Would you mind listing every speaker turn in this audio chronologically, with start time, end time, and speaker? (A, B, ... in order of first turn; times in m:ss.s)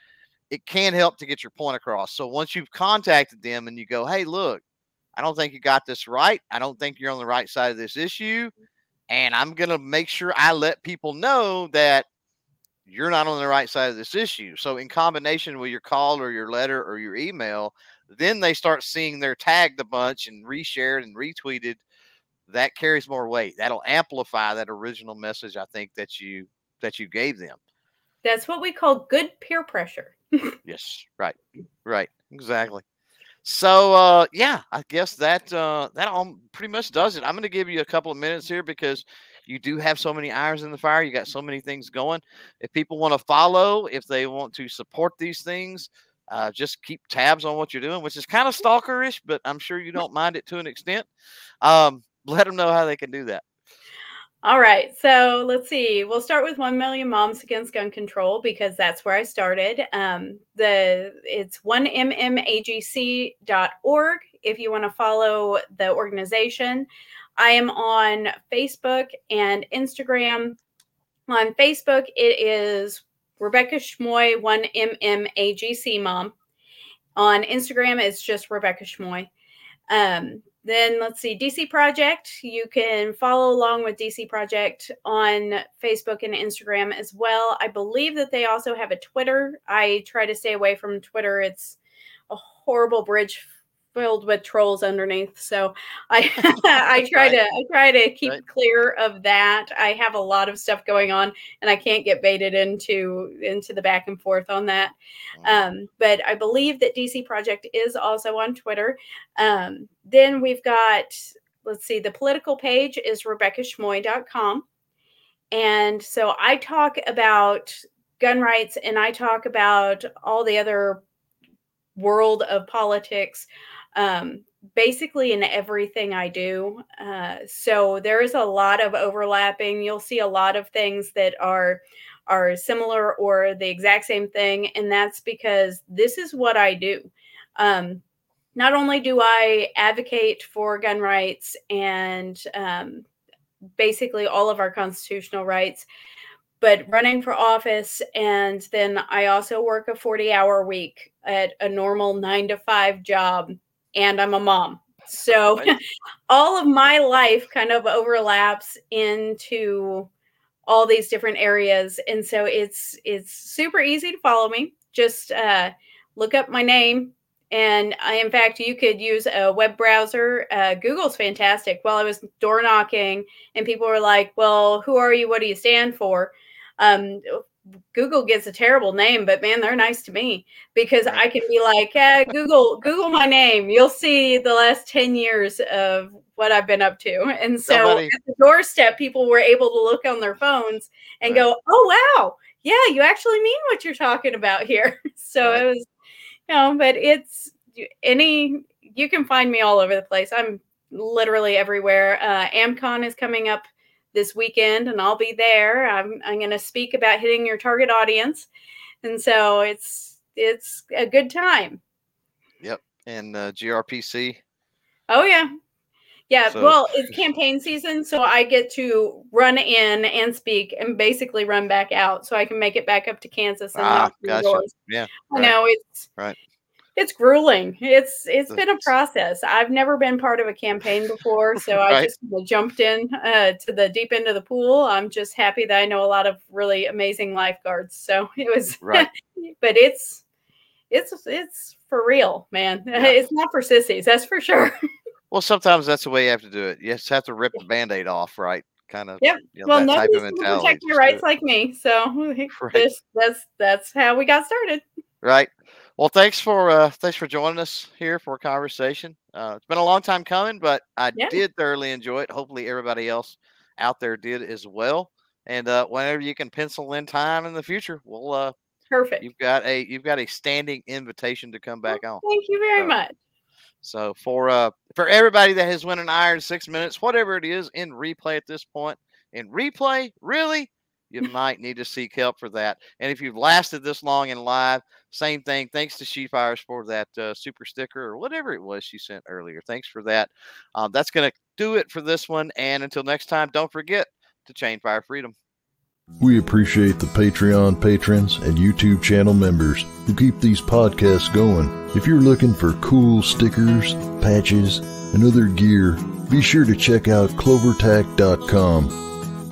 0:00.5-0:04.6 A
0:05.2-0:08.5 A
0:09.1-0:12.1 A
0:12.9-0:21.8 A
0:22.5-0:27.6 A
0:28.2-0:30.6 B
0:30.6-0:32.8 A
0:33.4-0:51.1 A
0:51.6-0:53.4 A
0:54.4-1:10.6 B
1:11.3-1:16.3 B
1:17.2-1:19.3 B
1:19.9-1:31.8 B
1:32.3-1:54.6 B
1:36.9-1:37.4 A
1:55.5-2:01.0 B
2:02.0-2:18.0 B
2:18.6-2:23.1 B
2:23.8-2:25.9 B
2:26.6-2:35.8 B
2:36.3-2:40.1 B
2:40.7-3:15.9 B
3:07.7-3:08.2 A
3:16.5-3:28.5 B
3:29.0-3:31.8 B
3:32.6-3:34.4 A
3:35.1-3:35.5 B
3:36.3-3:44.7 B
3:36.5-3:36.8 A
3:43.8-3:45.5 A
3:45.3-3:46.1 B
3:47.0-3:59.1 B
3:48.5-3:48.8 A
3:51.8-3:52.1 A
3:58.8-3:59.1 A
3:59.6-4:00.2 B
4:00.9-4:04.7 B
4:05.3-4:11.2 A
4:09.2-4:14.8 B
4:12.5-4:12.8 A
4:15.2-4:28.5 A
4:28.9-4:29.2 B
4:29.2-4:32.2 A
4:31.9-4:33.1 B
4:33.8-4:55.3 A
4:56.2-5:09.0 C